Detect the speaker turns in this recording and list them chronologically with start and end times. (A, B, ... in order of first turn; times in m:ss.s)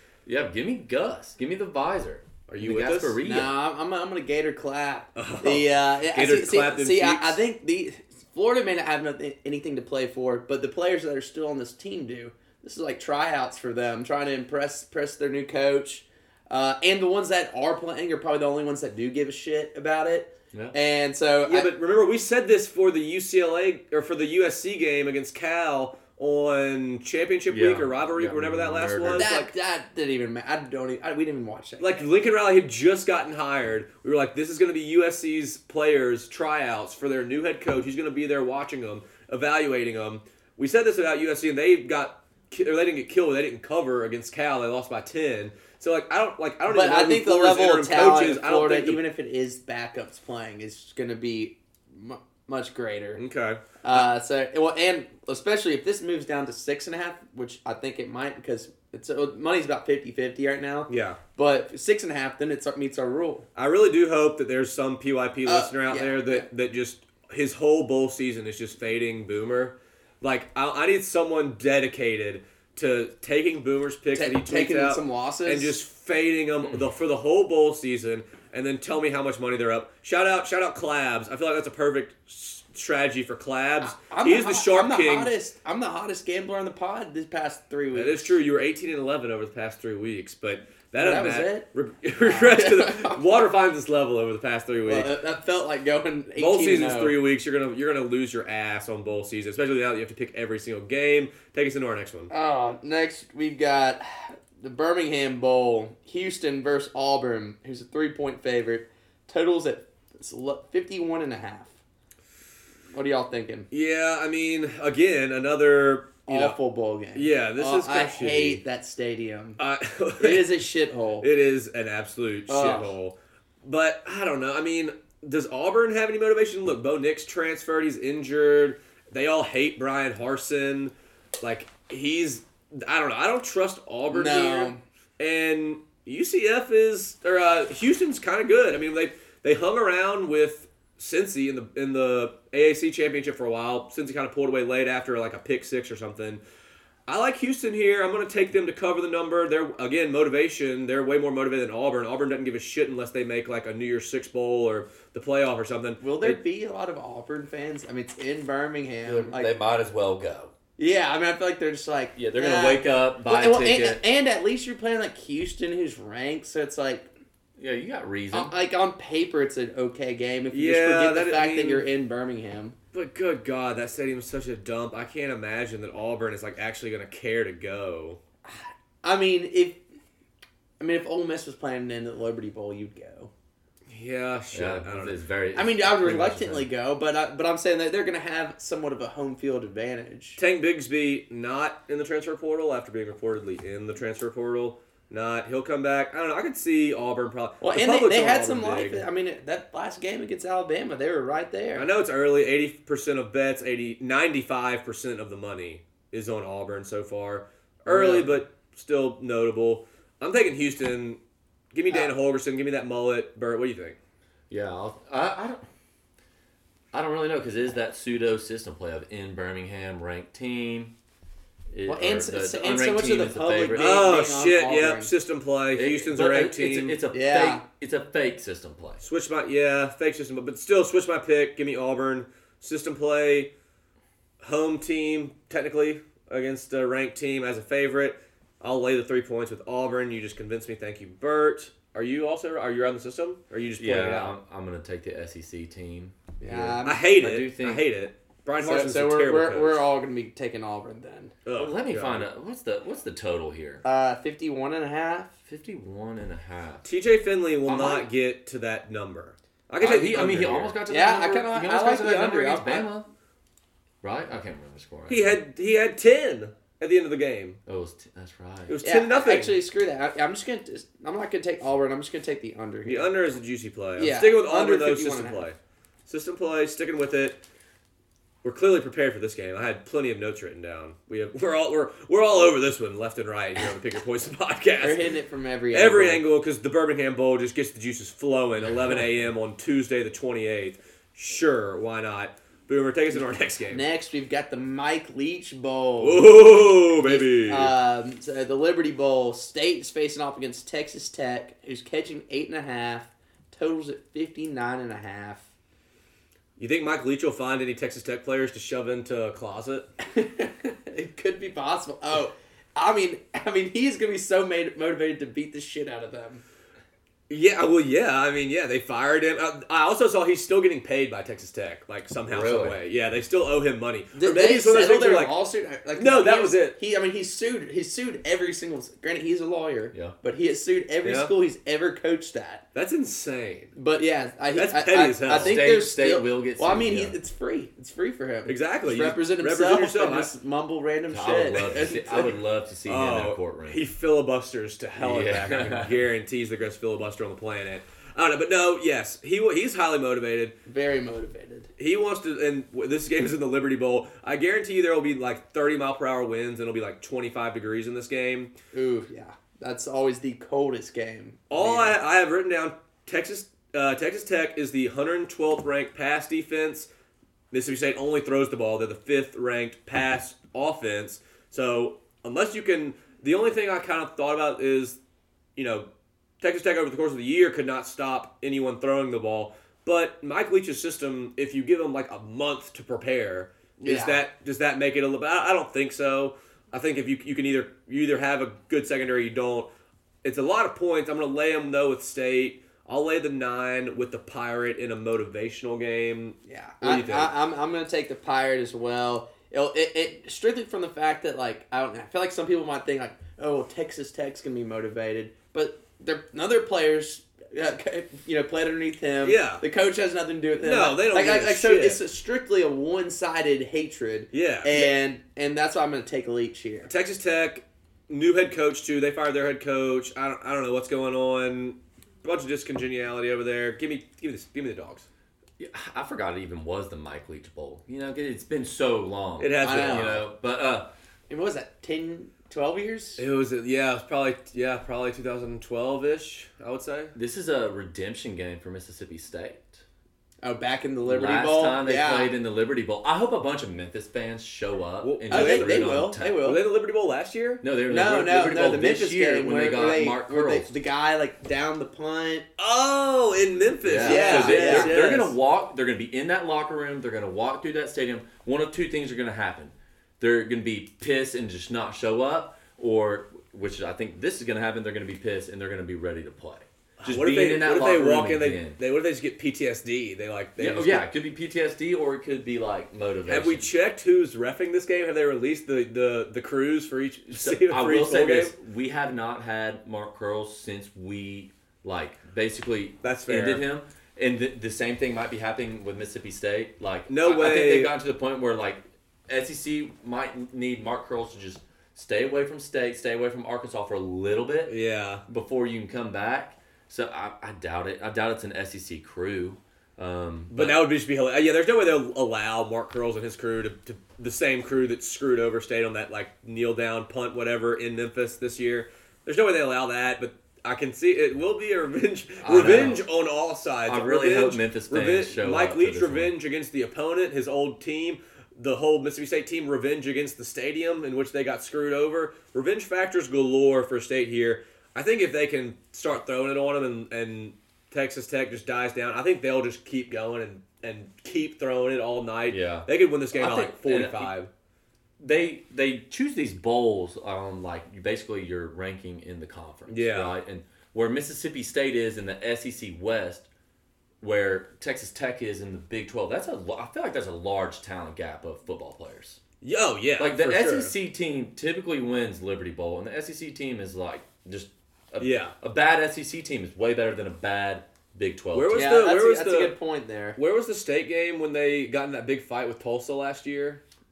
0:00.3-0:03.5 A
0:02.5-0:03.2 B
0:03.2-0:21.7 C
0:05.2-0:07.4 B
0:21.4-0:29.5 B
0:27.5-0:29.3 A
0:29.1-0:31.9 C
0:31.8-0:49.0 B
0:46.7-0:53.2 C
0:53.2-0:54.0 B
0:53.8-1:03.5 C
1:00.9-1:01.2 B
1:03.6-1:25.3 B
1:05.5-1:06.5 C
1:14.1-1:15.8 C
1:23.8-1:28.4 C
1:27.9-1:35.1 B
1:31.0-1:31.7 C
1:32.2-1:33.2 C
1:34.9-1:37.2 C
1:36.4-1:42.3 B
1:42.3-1:51.8 C
1:52.9-1:53.7 C
1:53.7-1:56.6 B
1:56.3-1:59.6 C
1:57.1-1:58.6 B
1:59.6-2:00.6 B
2:00.2-2:01.3 C
2:01.2-2:26.4 B
2:02.5-2:02.9 C
2:14.1-2:14.8 C
2:27.1-2:36.4 B
2:36.0-2:39.5 C
2:39.0-2:40.5 A
2:40.8-2:47.1 C
2:42.2-2:44.0 A
2:47.6-2:48.5 A
2:48.3-2:52.8 C
2:50.5-2:51.8 B
2:52.9-2:58.2 B
2:58.5-2:59.8 C
3:00.8-3:03.3 C
3:03.9-3:05.2 B
3:04.5-3:06.7 A
3:05.5-3:10.4 C
3:10.4-3:19.0 B
3:17.6-3:21.9 C
3:21.8-3:31.2 B
3:27.9-3:28.4 C
3:31.7-3:34.0 B
3:34.5-3:35.6 A
3:36.9-3:40.9 A
3:41.7-3:43.9 A
3:41.9-3:45.1 C
3:43.8-3:47.0 B
3:45.7-3:49.0 A
3:47.1-3:47.6 C
3:49.0-3:53.5 B
3:54.4-4:04.4 B
4:03.8-4:07.8 A
4:06.4-4:07.0 C
4:06.8-4:09.8 B
4:08.6-4:11.3 C
4:11.4-4:12.3 B
4:11.6-4:13.8 A
4:13.8-4:15.3 C
4:15.5-4:16.8 A
4:16.8-4:20.8 B
4:17.7-4:18.0 C
4:19.8-4:23.1 A
4:20.9-4:22.9 C
4:24.0-4:25.4 A
4:25.1-4:27.6 B
4:27.7-4:28.8 A
4:28.7-4:29.6 B
4:28.8-4:33.1 C
4:32.8-4:37.4 B
4:34.0-4:35.5 C
4:38.4-4:45.0 B
4:44.8-4:46.2 C
4:45.7-4:53.8 B
4:53.7-4:56.4 C
4:56.0-4:57.7 B
4:57.0-5:05.5 C
5:06.6-5:09.9 B
5:10.0-5:16.4 C
5:17.3-5:25.3 B
5:22.3-5:22.8 A
5:24.2-5:32.6 C
5:26.0-5:26.8 B
5:31.0-5:31.3 B
5:32.8-5:33.7 B
5:33.8-5:42.3 C
5:34.6-5:35.6 B
5:35.3-5:37.2 A
5:38.5-5:40.3 B
5:41.1-5:43.8 A
5:42.9-5:50.6 B
5:45.0-5:45.9 A
5:50.7-5:51.7 C
5:51.8-5:58.5 B
5:58.7-6:02.0 C
6:01.5-6:06.9 B
6:07.5-6:15.0 B
6:15.6-6:15.9 B
6:16.4-6:29.7 B
6:23.8-6:24.2 C
6:30.2-6:37.3 B
6:36.5-6:56.9 C
6:49.2-6:49.6 B
6:50.6-6:52.0 B
6:54.3-6:54.9 B
6:56.9-7:05.1 B
7:05.6-7:10.9 A
7:09.4-7:10.2 B
7:09.6-7:10.2 C
7:11.3-7:13.2 C
7:13.2-7:17.2 B
7:17.2-7:19.8 A
7:20.4-7:22.3 C
7:21.1-7:26.4 A
7:25.0-7:27.6 B
7:25.3-7:26.6 C
7:27.6-7:30.8 A
7:27.9-7:32.5 C
7:32.6-7:35.3 B
7:33.8-7:48.8 A
7:34.0-7:35.3 C
7:47.0-7:51.1 B
7:50.6-7:53.7 A
7:53.3-7:58.5 B
7:57.3-8:14.8 A
8:03.0-8:03.6 B
8:07.1-8:07.9 B
8:14.7-8:15.2 B
8:15.3-8:20.9 A
8:20.5-8:54.5 B
8:32.4-8:33.1 A
8:33.9-8:36.3 A
8:52.5-8:54.3 A
8:55.2-9:03.5 A
8:59.9-9:00.3 B
9:04.2-9:09.4 A
9:09.6-9:11.0 B
9:10.2-9:18.9 A
9:15.2-9:15.6 B
9:18.5-9:19.7 B
9:18.7-9:20.4 C
9:20.4-9:23.8 B